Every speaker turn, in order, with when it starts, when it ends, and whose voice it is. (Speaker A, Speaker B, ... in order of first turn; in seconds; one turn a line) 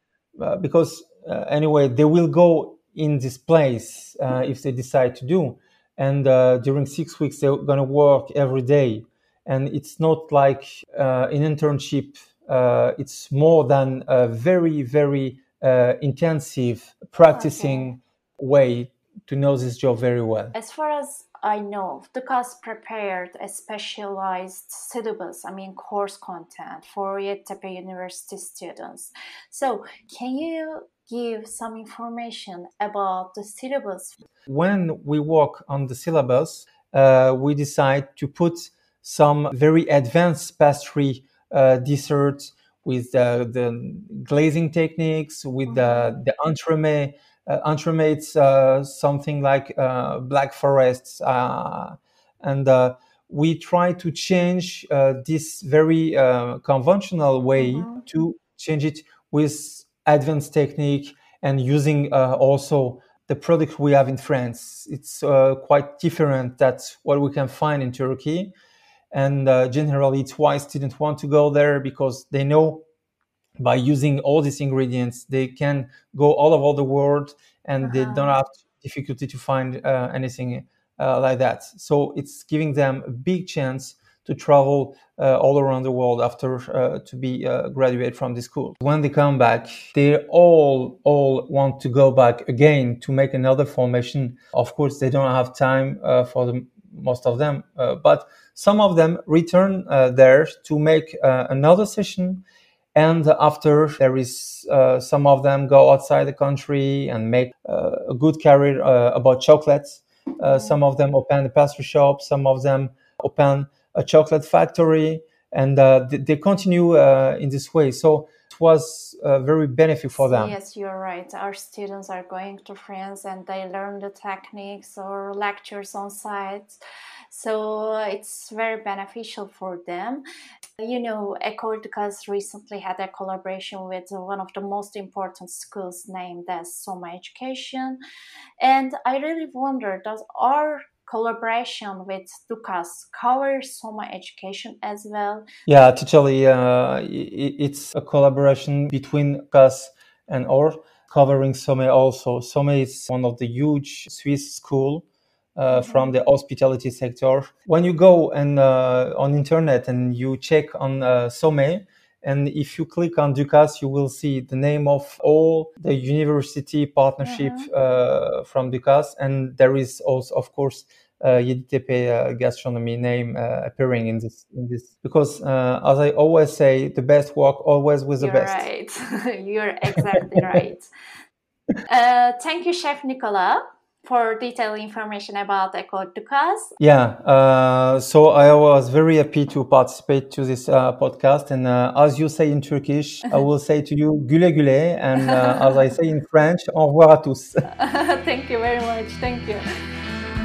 Speaker A: 0.4-20.6
Speaker B: 17.3-17.9
Speaker B: 20.6-34.2
Speaker A: 34.5-68.5
Speaker B: 45.7-46.2
Speaker B: 57.6-58.0
Speaker A: 69.1-72.8
Speaker A: 73.6-102.4
Speaker B: 77.8-78.4
Speaker A: 103.0-120.5
Speaker B: 110.5-110.8
Speaker B: 120.2-130.2
Speaker B: 130.8-138.0
Speaker B: 138.6-145.5
Speaker A: 145.7-178.7
Speaker B: 155.7-156.1
Speaker B: 167.2-167.7
Speaker B: 178.2-180.9
Speaker A: 179.9-180.7
Speaker B: 181.9-186.7
Speaker A: 186.8-197.7
Speaker B: 195.2-195.8
Speaker B: 197.7-199.7